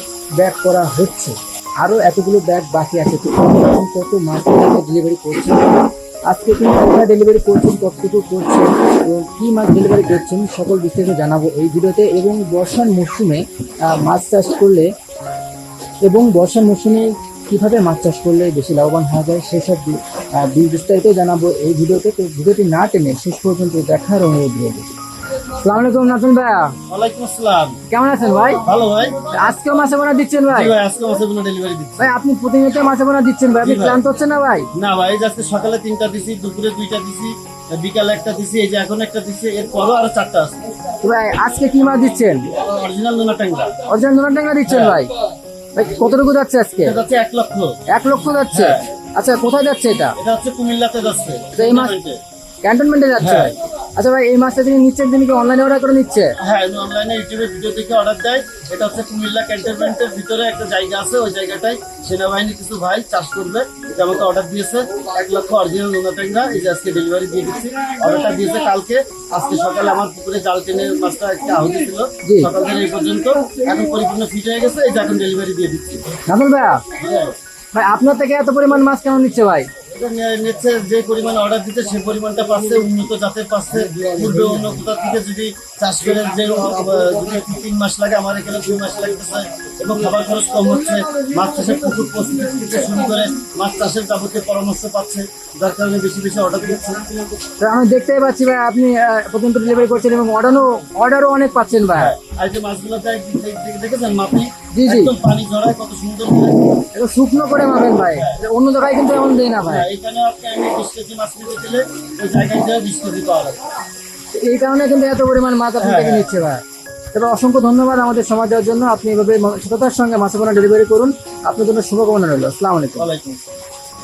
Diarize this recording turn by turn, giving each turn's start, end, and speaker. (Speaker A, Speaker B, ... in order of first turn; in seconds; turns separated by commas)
Speaker A: 0.4-5.7, Speaker A: 6.3-14.9, Speaker A: 16.0-26.7, Speaker B: 26.9-27.8, Speaker A: 27.9-28.7, Speaker B: 28.6-29.5, Speaker A: 29.3-30.8, Speaker B: 30.5-32.1, Speaker A: 32.0-34.7, Speaker B: 33.6-34.0, Speaker B: 34.7-40.6, Speaker A: 41.0-42.5, Speaker B: 42.5-43.9, Speaker A: 43.9-45.1, Speaker B: 44.7-45.0, Speaker A: 45.7-47.0, Speaker B: 46.8-47.8, Speaker A: 47.9-50.2, Speaker B: 48.5-48.9, Speaker B: 50.2-52.2, Speaker A: 51.6-52.0, Speaker A: 52.6-56.4, Speaker B: 53.2-53.5, Speaker B: 56.4-76.2, Speaker A: 72.2-72.5, Speaker A: 76.3-76.8, Speaker B: 77.0-77.3, Speaker A: 77.7-79.7, Speaker B: 79.9-97.3, Speaker A: 97.6-102.1, Speaker B: 101.9-106.7, Speaker A: 104.7-105.2, Speaker A: 106.9-109.9, Speaker B: 108.0-108.4, Speaker B: 109.7-113.6, Speaker A: 114.3-116.6, Speaker B: 115.8-116.3, Speaker A: 117.1-123.1, Speaker B: 123.0-123.5